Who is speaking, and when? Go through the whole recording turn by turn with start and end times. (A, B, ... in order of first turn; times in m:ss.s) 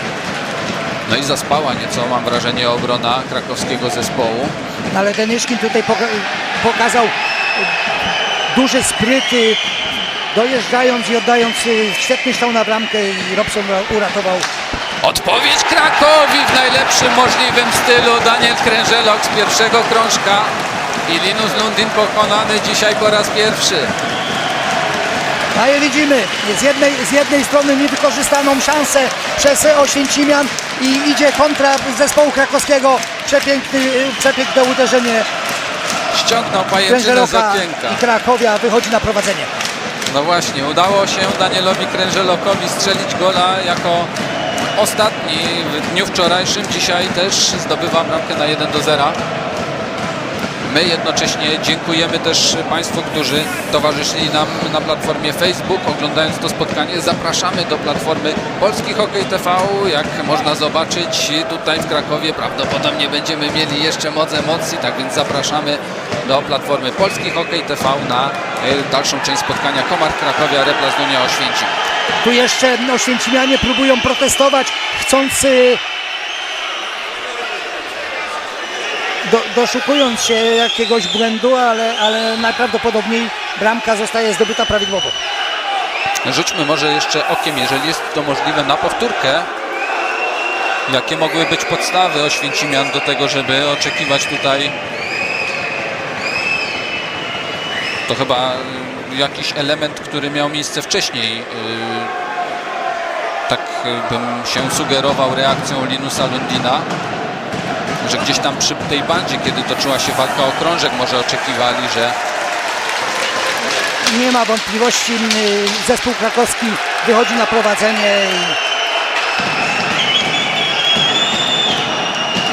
0:01.0-0:04.5 A
0:04.9-0:07.7 B
0:08.5-0:09.6 B
0:10.3-0:14.5 B
0:15.0-0:20.5 A
0:21.1-0:23.9 A
0:25.5-0:35.3 B
0:36.1-0:38.0 A
0:36.9-0:39.5 B
0:40.1-0:44.1 A
0:44.8-0:49.2 A
0:50.6-1:11.7 A
1:12.2-1:15.8 B
1:19.2-1:25.2 B
1:26.2-1:29.5 A
1:30.9-1:34.7 A
1:38.1-1:42.2 A
1:43.5-1:46.9 A
1:48.0-1:52.2 A
1:54.0-1:58.6 B